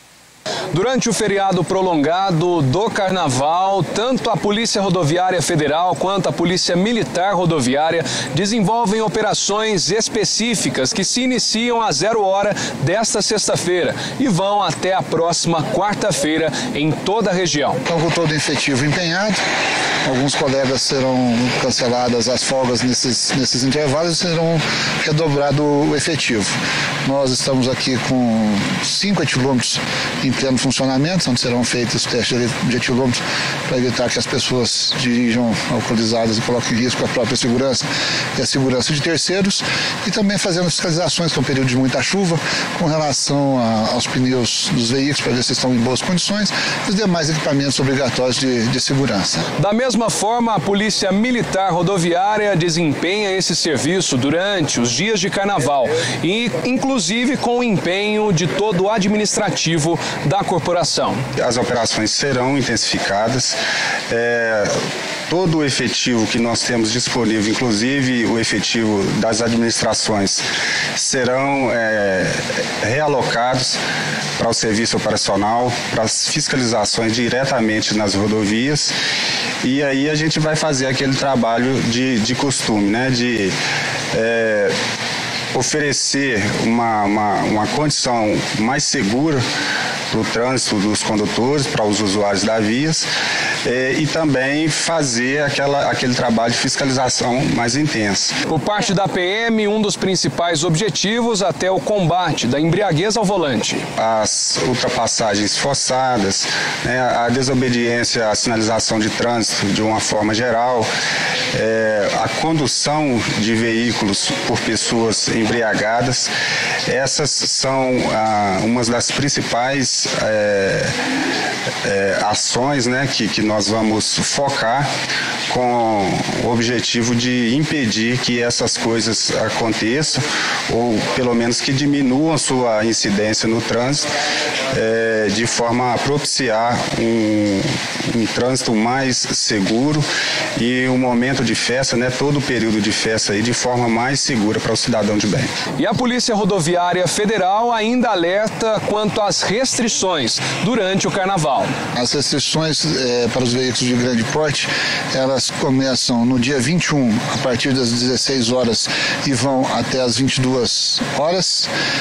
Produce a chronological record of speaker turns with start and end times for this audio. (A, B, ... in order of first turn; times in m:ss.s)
0:00.7-0:17.8 A
0:17.8-0:19.4 B
0:20.0-0:37.8 B
0:38.4-0:49.5 B
0:49.6-1:01.2 A
1:01.4-1:03.6 C
1:04.1-1:04.7 C
1:05.3-1:10.4 C
1:11.0-1:13.8 C
1:14.4-1:18.9 C
1:19.6-1:23.5 C
1:24.1-1:24.7 C
1:25.5-1:29.4 C
1:30.1-1:33.1 C
1:33.6-1:38.3 C
1:38.5-1:43.8 A
1:44.0-1:50.9 C
1:51.5-1:56.3 C
1:56.9-2:00.9 C
2:01.8-2:04.9 C
2:05.5-2:14.1 C
2:14.7-2:20.0 C
2:20.6-2:25.5 C
2:25.8-2:31.7 A
2:31.9-2:41.7 B